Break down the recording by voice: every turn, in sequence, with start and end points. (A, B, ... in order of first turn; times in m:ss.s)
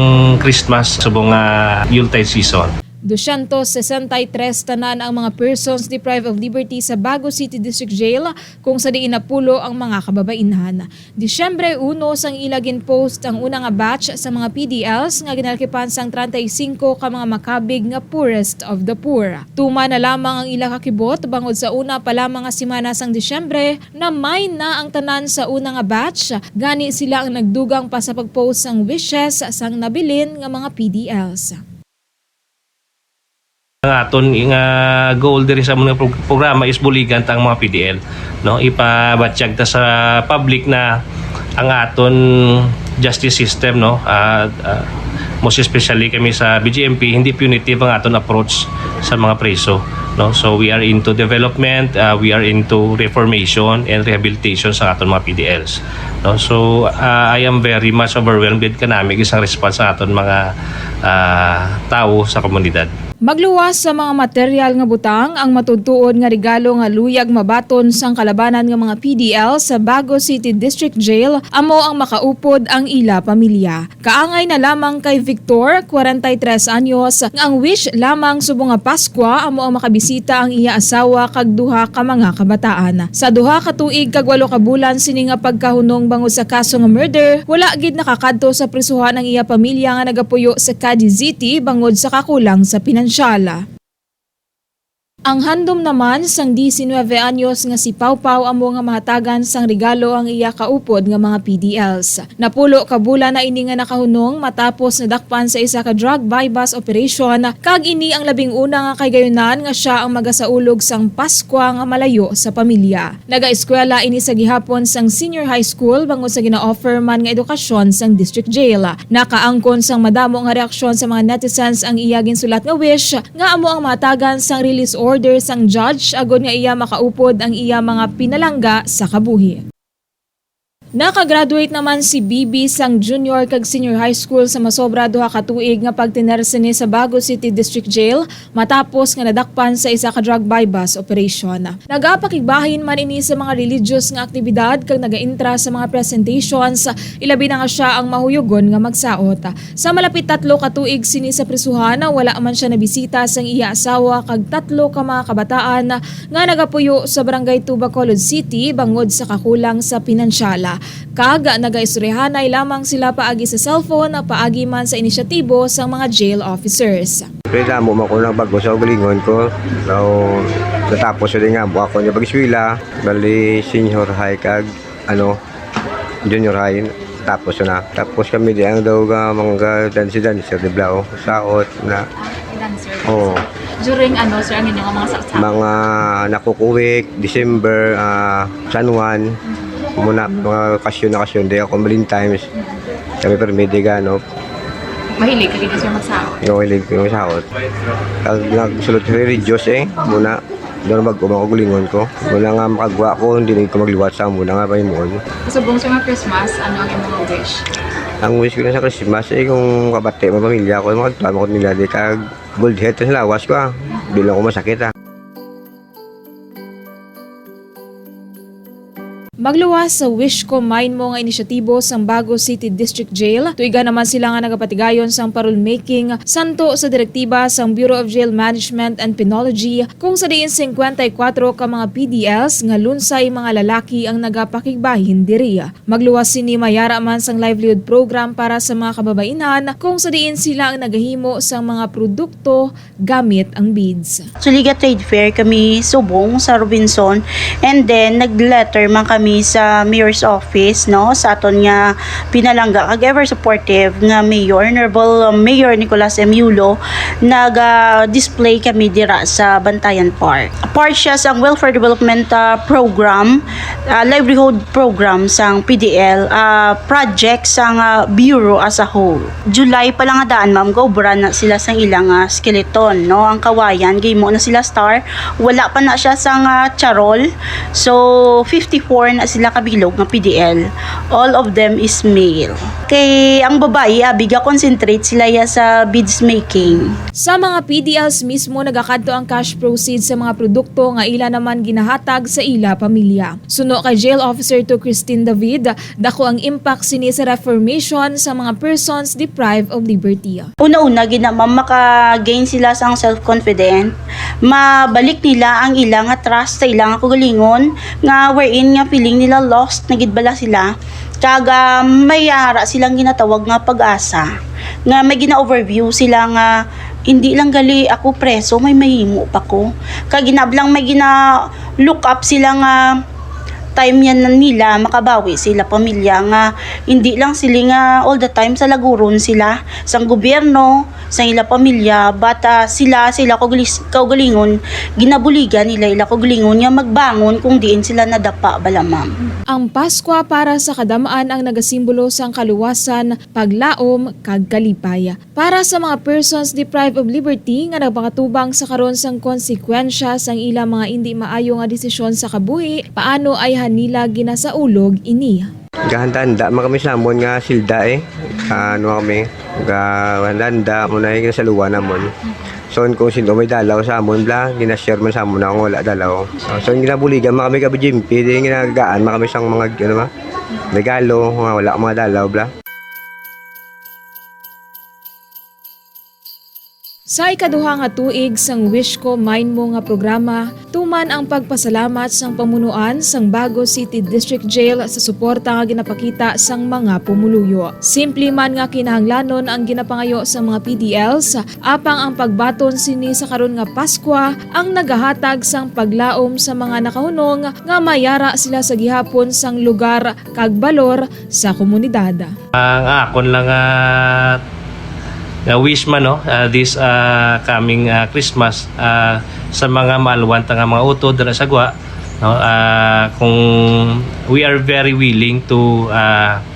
0:00.4-0:02.7 A
0:03.1-0:31.6 B
0:33.8-0:41.0 A
0:41.6-0:44.9 A
0:45.4-1:00.4 A
1:01.0-1:02.9 A
1:03.2-1:33.6 B
1:35.3-2:09.6 B
2:11.0-2:47.3 B
2:47.5-2:55.4 C
2:56.2-3:02.0 C
3:02.2-3:05.5 D
3:03.0-3:03.4 C
3:05.3-3:09.2 C
3:10.0-3:12.5 C
3:13.2-3:14.2 C
3:15.1-3:16.4 D
3:16.4-3:17.4 C
3:18.2-3:25.2 C
3:25.4-3:27.6 D
3:28.2-3:34.9 C
3:39.4-4:04.2 B
4:04.4-4:23.4 E
4:23.9-4:37.2 E
4:37.8-4:46.9 E
4:47.2-5:00.5 B
5:00.6-5:03.9 E
5:04.4-5:10.7 E
5:11.2-5:14.3 E
5:14.9-5:16.5 E
5:17.1-5:21.2 E
5:21.8-5:22.9 E
5:23.8-5:39.1 E
5:39.5-5:55.5 B
5:55.9-6:10.1 C
6:10.6-6:12.5 C
6:17.1-6:42.3 B
6:42.5-6:44.4 A
6:45.5-6:56.4 A